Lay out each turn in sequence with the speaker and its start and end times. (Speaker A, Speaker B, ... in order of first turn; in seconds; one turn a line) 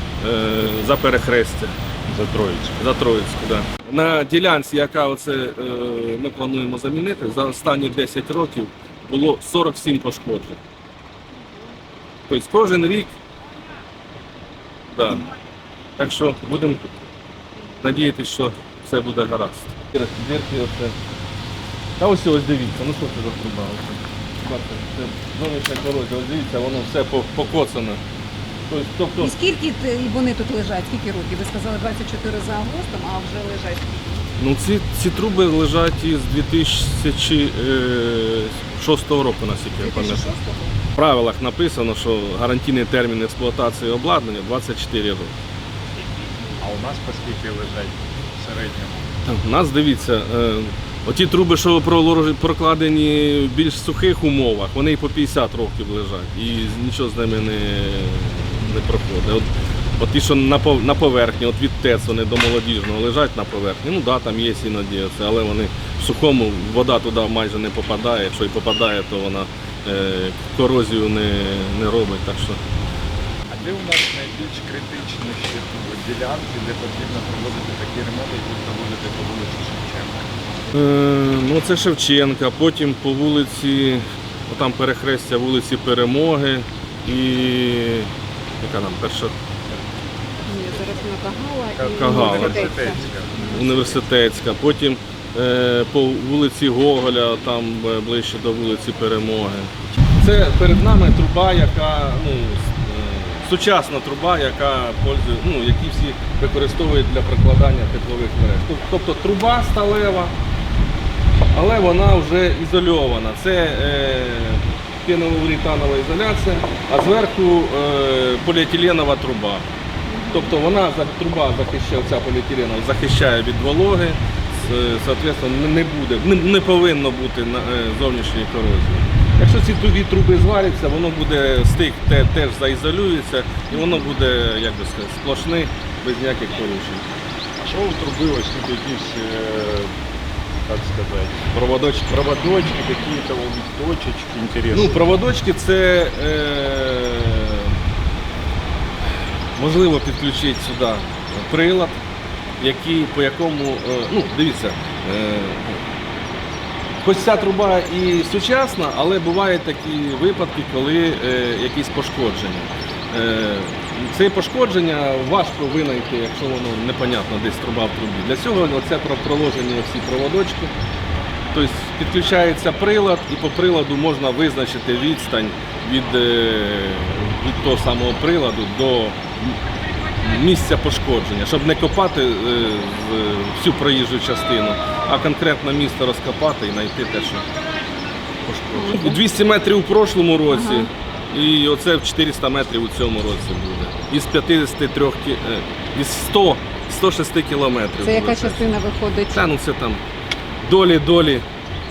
Speaker A: 0.2-1.7
Speaker B: 2.1-2.8
Speaker A: 2.8-10.6
Speaker A: 12.3-13.1
Speaker A: 14.9-15.3
Speaker A: 16.0-16.9
Speaker A: 17.8-21.0
Speaker A: 22.0-28.0
Speaker A: 28.7-29.4
Speaker C: 29.2-34.2
Speaker A: 34.4-40.3
Speaker C: 39.8-40.8
Speaker A: 40.9-45.4
Speaker B: 46.6-49.1
Speaker A: 49.3-59.5
Speaker A: 60.0-72.6
Speaker B: 73.5-80.3
Speaker A: 80.7-89.3
Speaker C: 90.5-93.0
Speaker B: 91.8-94.0
Speaker A: 91.9-92.9
Speaker A: 93.4-110.3
Speaker A: 111.5-119.7
Speaker C: 120.1-120.6
Speaker A: 120.3-137.1
Speaker C: 133.8-134.0
Speaker B: 137.6-139.9
Speaker B: 140.7-145.1
Speaker A: 141.6-142.1
Speaker A: 144.7-147.8
Speaker A: 149.6-152.0
Speaker A: 152.6-155.8
Speaker A: 157.0-170.7
Speaker A: 171.5-179.6
Speaker A: 180.2-187.4
Speaker A: 188.4-198.6
Speaker C: 188.7-189.2
Speaker C: 190.5-190.9
Speaker C: 198.0-199.5
Speaker A: 199.3-200.0
Speaker A: 200.6-201.5